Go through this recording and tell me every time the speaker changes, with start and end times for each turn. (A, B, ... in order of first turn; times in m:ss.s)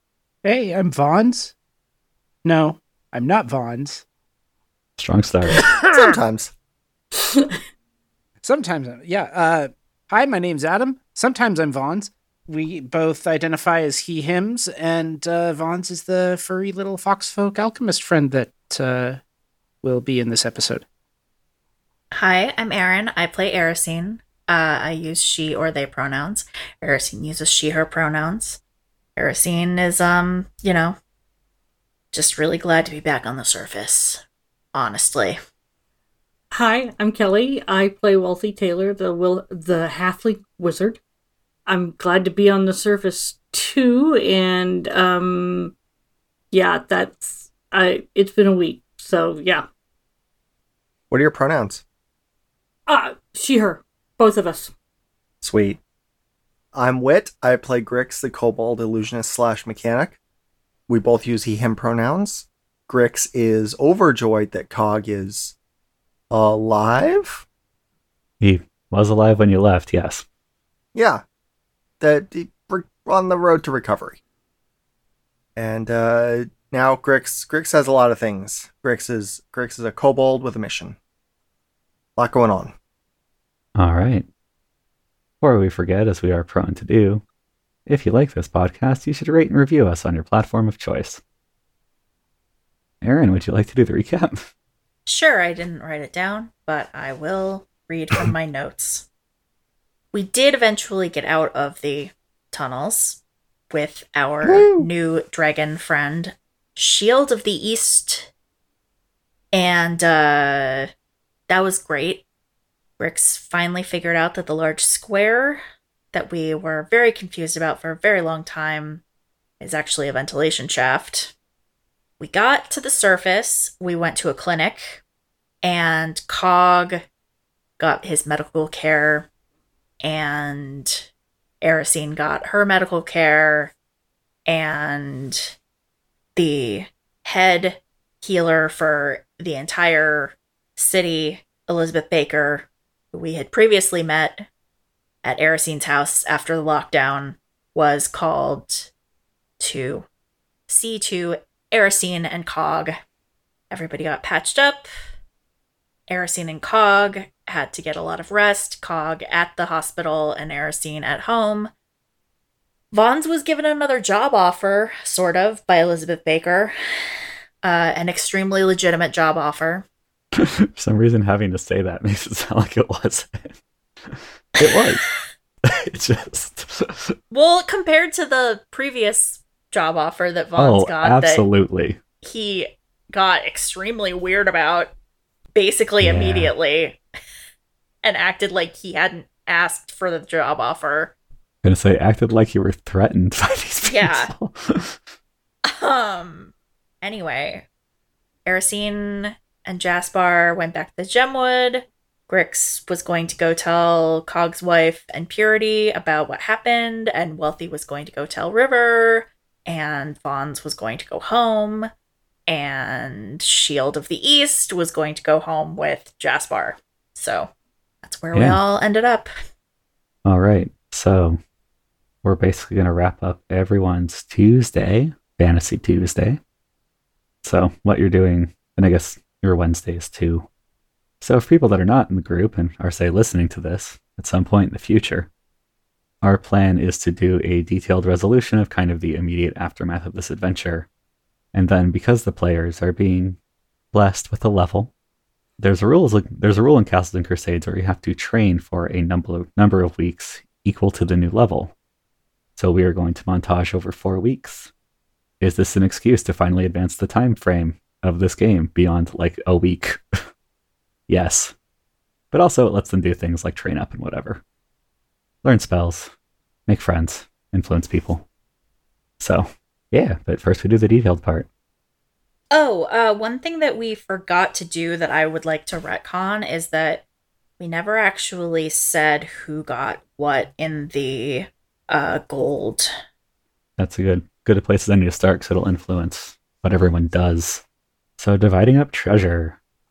0:00.4-0:01.5 A
0:02.4-0:04.0 A
0:05.0-0:05.7 B
0:05.6-0:06.5 C
0:07.1-0:07.6 D
0:08.4-0:19.2 A
0:19.8-0:20.8 A
0:22.1-0:28.6 E
0:29.2-0:31.0 E
0:32.1-0:34.2 E
0:34.7-0:35.4 E
0:36.5-0:41.0 D
0:41.6-0:45.7 D
0:46.5-0:49.6 D
0:51.1-0:51.8 C
0:52.9-0:54.7 D
0:55.4-0:55.8 C
0:56.7-1:00.2 C
1:00.9-1:05.5 C
1:06.3-1:07.4 C
1:08.4-1:10.2 B
1:10.9-1:11.2 C
1:12.0-1:14.2 C
1:15.6-1:21.0 C
1:22.2-1:22.7 C
1:23.8-1:24.2 B
1:25.4-1:27.2 B
1:27.8-1:31.2 B
1:33.0-1:34.4 B
1:35.0-1:39.0 E
1:40.1-1:48.3 E
1:44.4-1:44.9 C
1:49.5-1:50.9 E
1:51.5-1:52.2 E
1:53.0-1:59.0 E
1:59.6-2:01.3 E
2:02.2-2:05.0 E
2:05.6-2:07.0 E
2:07.8-2:09.3 E
2:10.0-2:11.1 E
2:11.6-2:13.7 E
2:14.4-2:15.5 E
2:16.4-2:24.4 E
2:25.2-2:28.9 E
2:29.6-2:30.0 E
2:30.7-2:33.0 E
2:33.7-2:34.8 E
2:36.1-2:41.7 E
2:42.9-2:46.8 E
2:47.6-2:49.8 E
2:50.3-2:53.6 B
2:54.1-2:55.1 B
2:54.6-2:54.9 E
2:55.6-2:57.1 B
2:57.3-3:01.4 E
3:00.6-3:02.0 B
3:02.2-3:04.9 E
3:05.5-3:07.0 E
3:06.0-3:06.5 B
3:08.0-3:11.1 E
3:11.6-3:15.0 B
3:13.8-3:14.3 E
3:15.6-3:17.6 E
3:18.4-3:31.9 E
3:32.5-3:37.5 E
3:38.0-3:39.3 E
3:38.3-3:38.6 B
3:40.2-3:41.4 B
3:42.2-3:46.4 B
3:47.4-3:50.5 B
3:51.2-3:55.3 B
3:56.2-4:00.9 B
4:01.5-4:03.4 B
4:03.9-4:04.9 B
4:05.6-4:11.7 B
4:12.6-4:14.7 B
4:15.4-4:20.2 B
4:21.1-4:21.5 B
4:22.3-4:24.4 B
4:25.4-4:26.1 B
4:26.7-4:28.2 B
4:29.2-4:31.5 B
4:32.5-4:37.0 E
4:37.6-4:42.9 E
4:43.8-4:47.6 B
4:48.2-4:49.6 B